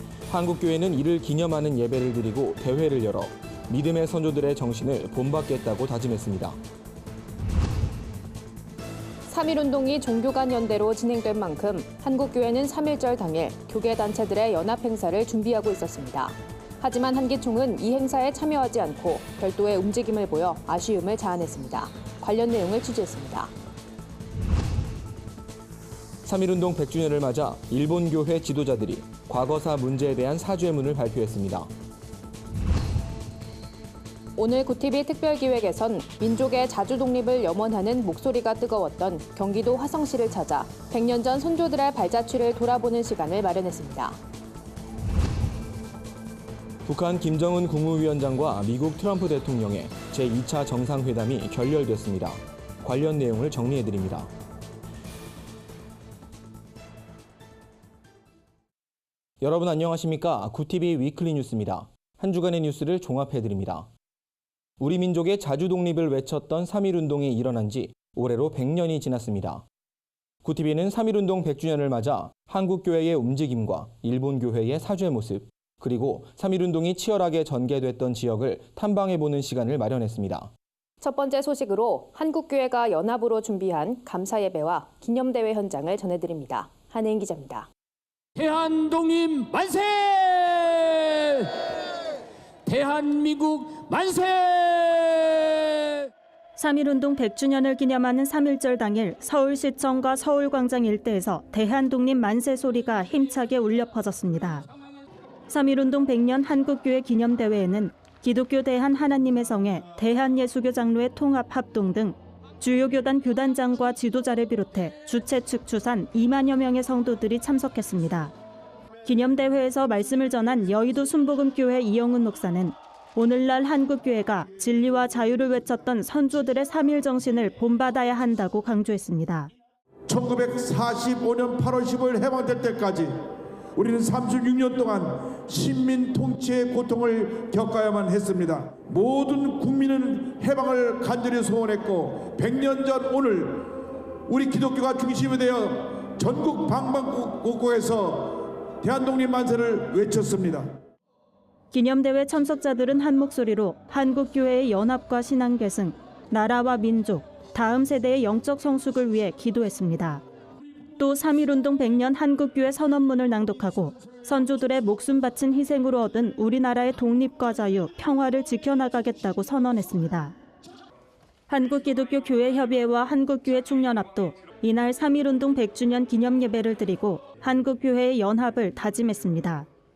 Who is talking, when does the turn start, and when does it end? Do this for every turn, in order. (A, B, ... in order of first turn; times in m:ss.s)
0:00.3-0:06.6 A
0:09.2-0:23.5 B
0:26.2-0:31.7 A
0:34.4-0:44.2 B
0:46.8-0:54.3 A
0:59.4-1:03.9 A
1:04.8-1:09.6 A
1:10.4-1:20.5 A
1:21.0-1:27.7 B
1:28.4-1:31.7 C
1:32.6-1:36.1 C
1:36.6-1:44.6 D
1:45.5-1:58.3 D
1:59.0-2:09.5 D
2:10.1-2:30.7 E
2:31.7-2:40.2 D
2:41.0-2:50.4 D
2:51.5-2:59.7 D